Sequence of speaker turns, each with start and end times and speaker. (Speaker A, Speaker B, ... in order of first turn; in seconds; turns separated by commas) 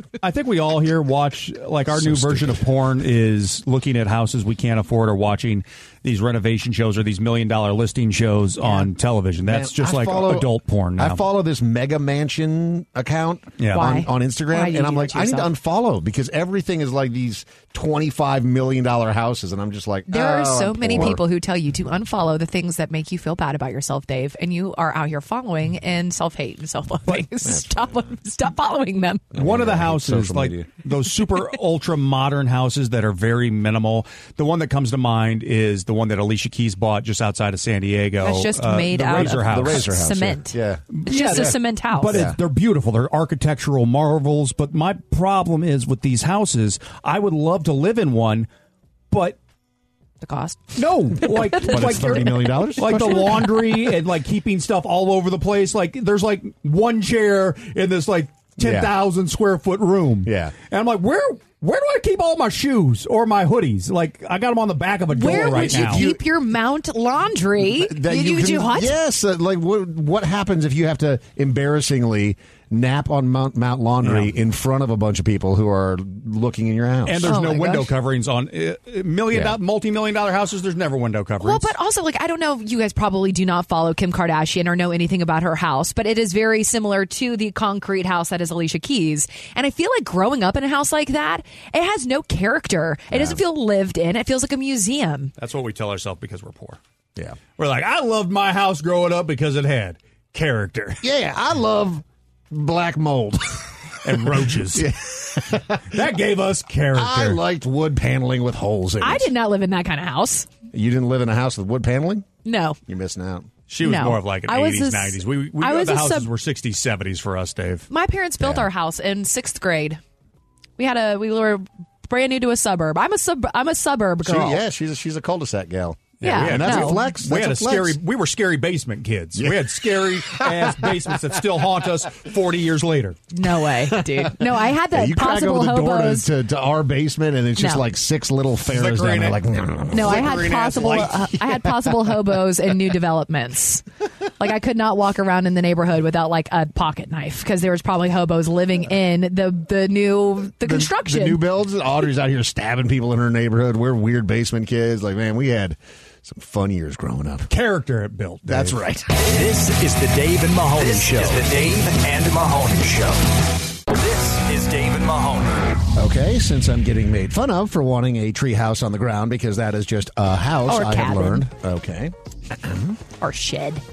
Speaker A: 0.2-11.2, Speaker B: 1.9-2.6, Speaker B: 9.5-21.2, Speaker A: 13.6-14.0, Speaker C: 13.7-15.5, Speaker C: 20.1-29.3, Speaker B: 27.5-28.1, Speaker B: 29.3-30.7, Speaker A: 29.4-39.9, Speaker C: 38.2-42.3, Speaker B: 39.0-41.5, Speaker A: 41.0-48.5, Speaker B: 42.1-42.4, Speaker A: 49.1-49.4, Speaker C: 50.2-53.5, Speaker A: 50.8-66.0, Speaker B: 51.7-53.6, Speaker B: 58.6-58.9, Speaker B: 60.2-60.5, Speaker C: 65.1-68.9, Speaker B: 65.2-66.2, Speaker B: 67.6-77.3, Speaker A: 74.0-74.3, Speaker A: 77.1-81.7, Speaker C: 77.2-77.9, Speaker B: 79.3-79.6, Speaker C: 81.4-95.3, Speaker B: 93.1-93.4, Speaker A: 95.4-96.8, Speaker A: 97.6-101.0, Speaker B: 101.0-106.1, Speaker A: 104.0-104.9, Speaker A: 105.9-107.4, Speaker B: 106.9-109.3, Speaker C: 109.0-110.5, Speaker B: 110.7-112.3, Speaker C: 112.5-112.8, Speaker B: 112.9-113.5, Speaker A: 113.7-117.9, Speaker C: 113.8-116.3, Speaker C: 117.9-120.0, Speaker B: 118.4-118.7, Speaker C: 120.8-124.6, Speaker B: 124.2-128.0, Speaker C: 126.2-127.0, Speaker A: 126.2-133.2, Speaker B: 129.4-131.2, Speaker C: 133.3-136.3, Speaker B: 133.8-134.4, Speaker B: 134.9-142.2, Speaker C: 137.6-137.8, Speaker A: 138.7-139.4, Speaker C: 139.9-143.8, Speaker A: 139.9-141.1, Speaker C: 144.4-151.4, Speaker B: 150.6-157.5, Speaker A: 157.5-158.8, Speaker B: 158.5-159.1, Speaker D: 159.2-163.2, Speaker B: 160.8-161.4, Speaker D: 163.9-165.8, Speaker B: 165.9-173.0, Speaker C: 170.7-171.5, Speaker C: 173.2-173.8